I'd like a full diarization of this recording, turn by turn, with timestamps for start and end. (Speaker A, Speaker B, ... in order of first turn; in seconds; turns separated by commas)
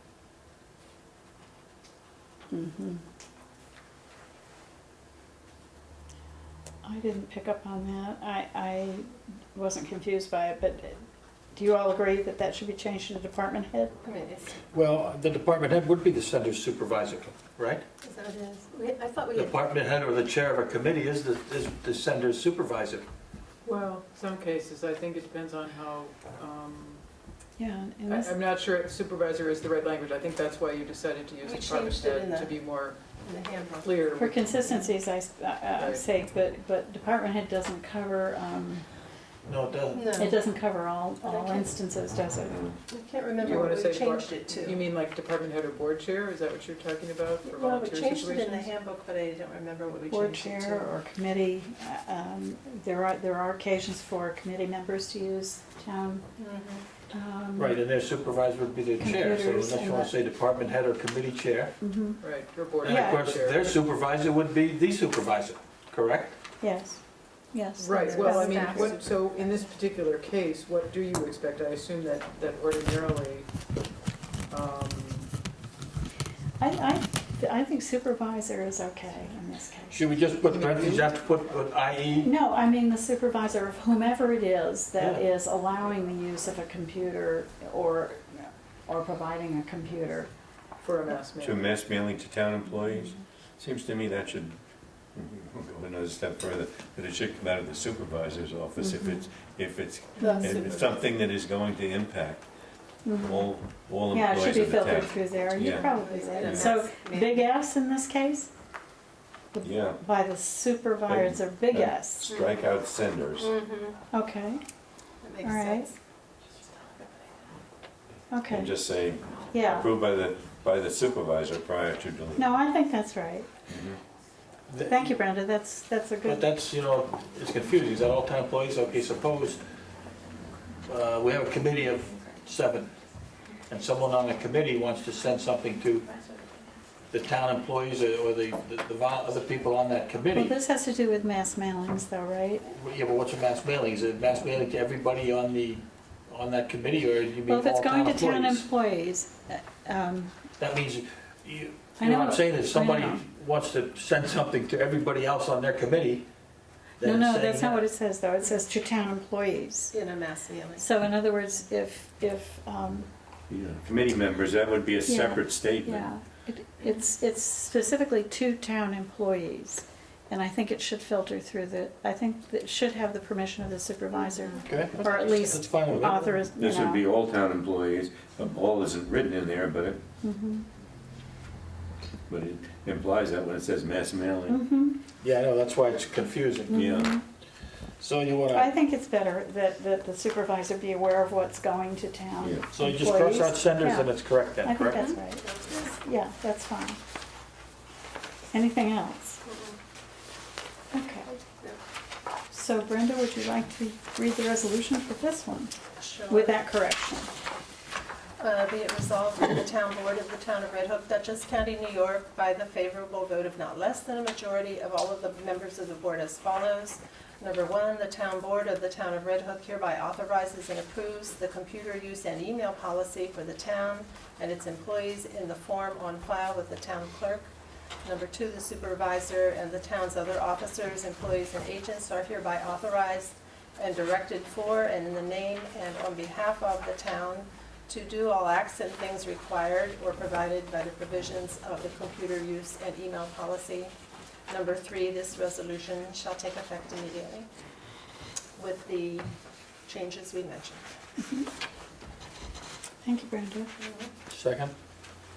Speaker A: 2.5-3.0, Speaker A: 6.8-11.0, Speaker A: 11.5-13.9, Speaker B: 14.0-14.6, Speaker C: 14.7-17.8, Speaker B: 18.0-19.6, Speaker C: 19.3-23.1, Speaker D: 23.6-27.0, Speaker A: 27.6-28.3, Speaker D: 28.1-33.0, Speaker B: 31.4-32.5, Speaker B: 33.1-34.0, Speaker D: 33.8-34.4, Speaker A: 34.1-38.8, Speaker D: 35.8-36.0, Speaker C: 39.5-40.2, Speaker B: 39.9-40.4, Speaker A: 40.1-42.6, Speaker B: 41.2-41.7, Speaker B: 42.9-44.8, Speaker D: 43.4-48.6, Speaker B: 47.4-50.9, Speaker A: 50.1-56.2, Speaker B: 56.4-56.8, Speaker A: 57.1-57.8, Speaker C: 57.5-61.8, Speaker A: 59.0-60.1, Speaker A: 61.8-62.2, Speaker D: 62.2-63.7, Speaker A: 62.8-63.3, Speaker C: 62.8-66.4, Speaker A: 66.6-69.0, Speaker D: 67.8-73.4, Speaker B: 67.9-69.6, Speaker D: 74.5-75.3, Speaker A: 76.6-80.0, Speaker C: 79.9-82.3, Speaker D: 80.5-81.0, Speaker A: 82.2-90.3, Speaker D: 90.8-91.5, Speaker E: 91.4-94.6, Speaker A: 92.8-93.2, Speaker E: 95.1-102.5, Speaker A: 98.8-99.2, Speaker A: 100.2-100.6, Speaker B: 100.2-101.0, Speaker A: 103.0-103.5, Speaker E: 103.2-105.9, Speaker A: 104.1-108.5, Speaker B: 105.5-107.5, Speaker E: 106.4-106.7, Speaker A: 109.5-112.3, Speaker E: 109.6-110.0, Speaker E: 111.1-113.5, Speaker B: 112.3-112.6, Speaker B: 113.4-114.0, Speaker A: 114.1-114.6, Speaker B: 115.2-115.9, Speaker A: 115.4-115.9, Speaker B: 116.8-117.2, Speaker A: 118.3-118.7, Speaker E: 118.5-122.5, Speaker A: 119.5-119.9, Speaker A: 122.3-123.5, Speaker E: 123.7-124.0, Speaker C: 124.7-125.0, Speaker A: 124.8-126.5, Speaker C: 126.2-129.6, Speaker C: 130.9-132.9, Speaker C: 133.7-136.1, Speaker B: 136.1-136.4, Speaker C: 137.1-140.6, Speaker A: 140.3-142.7, Speaker C: 142.7-148.6, Speaker A: 147.4-150.3, Speaker C: 150.6-156.3, Speaker A: 152.0-153.2, Speaker C: 157.0-157.8, Speaker A: 157.0-159.9, Speaker B: 159.9-160.9, Speaker A: 160.8-163.1, Speaker E: 163.5-166.1, Speaker A: 165.1-177.0, Speaker C: 174.6-176.4, Speaker E: 176.6-180.0, Speaker A: 180.2-180.7, Speaker E: 182.3-184.6, Speaker A: 184.5-185.0, Speaker C: 185.2-186.9, Speaker E: 186.7-187.2, Speaker A: 186.7-187.2, Speaker C: 188.0-188.7, Speaker A: 188.5-194.1, Speaker C: 192.7-195.0, Speaker A: 194.6-197.0, Speaker B: 194.9-195.9, Speaker A: 198.5-199.4, Speaker B: 199.4-199.8, Speaker A: 200.9-201.3, Speaker B: 201.3-201.8, Speaker A: 202.5-205.8, Speaker B: 206.0-206.6, Speaker A: 206.3-207.3, Speaker B: 208.4-227.5, Speaker B: 228.0-243.9, Speaker B: 244.5-247.5, Speaker B: 248.6-249.3, Speaker B: 249.8-250.8, Speaker A: 251.2-251.5, Speaker A: 253.0-253.7, Speaker B: 253.8-254.1, Speaker C: 254.3-254.7